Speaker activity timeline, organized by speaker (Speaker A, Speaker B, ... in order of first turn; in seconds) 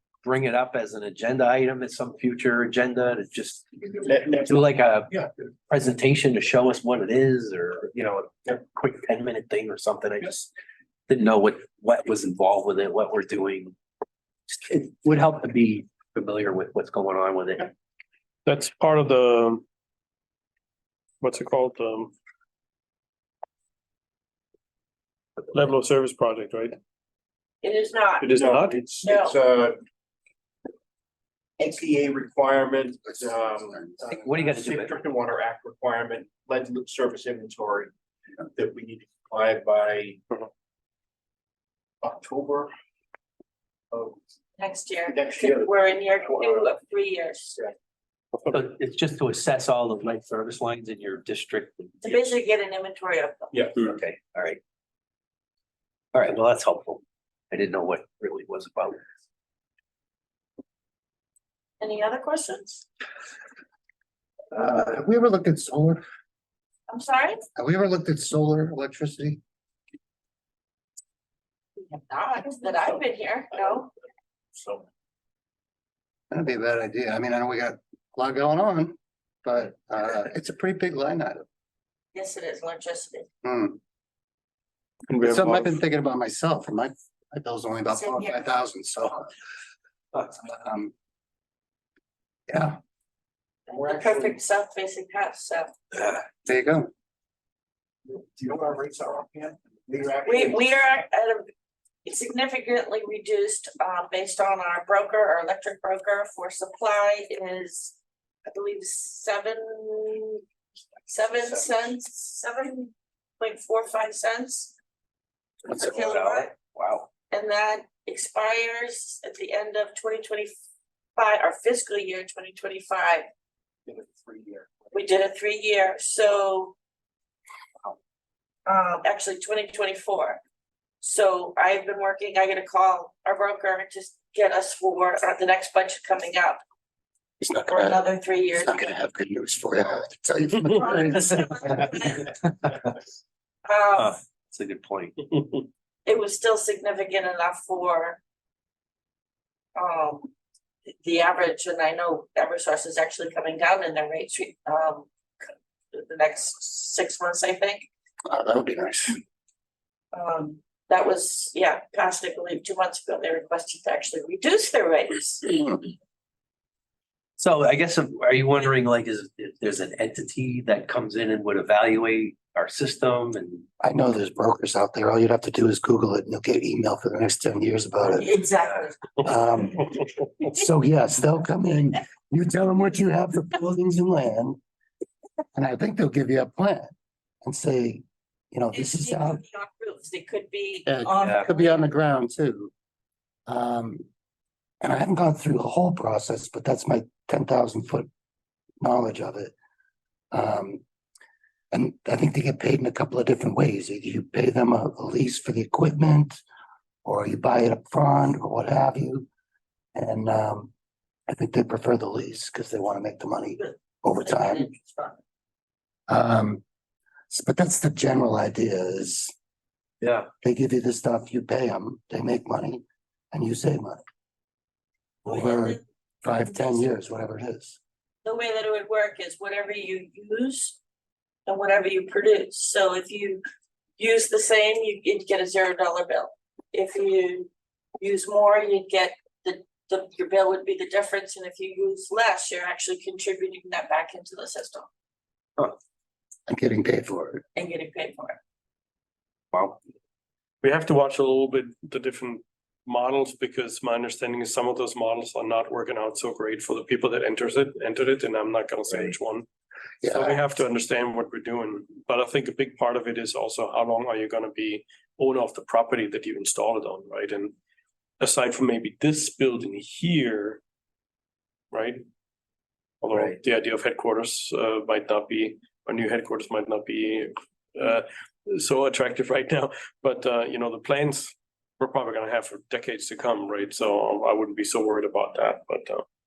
Speaker A: 0.2-3.7, 4.3-10.5, 11.1-13.8, 14.5-17.7, 34.1-35.0, 48.5-52.3, 53.8-54.6, 56.1-59.0, 95.9-96.2, 115.7-117.1, 143.9-145.2, 167.4-173.7, 191.2-191.4, 220.0-220.3, 249.5-249.8
Speaker B: 4.0-4.6, 28.3-29.8, 31.6-37.9, 38.5-40.2, 42.0-42.7, 43.9-44.2, 45.1-45.7, 53.5-53.9, 93.8-94.3, 98.1-100.5, 123.9-124.9
Speaker C: 18.4-19.6, 21.2-22.1, 25.5-26.8, 28.2-28.8, 85.1-85.8, 250.6-259.4, 260.1-267.5, 268.2-270.6, 271.7-272.0, 273.0-286.0
Speaker D: 27.6-28.3, 29.0-29.4, 44.6-47.6, 52.0-53.6, 61.8-62.8, 66.9-67.4, 71.8-73.9, 82.1-83.3, 87.9-88.4, 93.7-95.7, 100.2-101.4, 102.0-110.4, 111.1-114.7, 115.7-116.5, 117.3-120.5, 121.2-123.2, 124.9-126.7, 128.7-130.4, 131.0-136.6, 137.7-138.8, 140.7-142.3, 143.6-144.1, 146.1-148.2, 149.8-150.3, 151.0-157.9, 160.1-165.9, 178.1-179.2, 188.7-191.9, 213.6-215.2, 225.2-225.8, 228.2-230.8, 231.4-233.4, 234.0-244.9, 247.5-248.4
Speaker E: 33.0-34.2, 64.5-66.0, 67.5-69.4, 76.3-81.4, 83.4-83.8, 85.2-89.3, 90.3-90.9, 92.5-92.8, 96.5-96.9, 137.4-138.0, 138.5-141.9, 158.2-159.2, 173.8-178.3, 179.2-179.8, 180.4-184.6, 185.5-186.9, 187.4-189.4, 190.9-192.7, 193.5-194.0, 194.8-198.1, 198.8-199.5, 200.3-200.8, 201.7-206.4, 207.0-209.3, 209.9-210.7, 211.3-214.7, 216.1-216.6, 217.3-219.3, 220.4-224.0, 225.2-227.8, 246.5-247.4, 260.0-260.4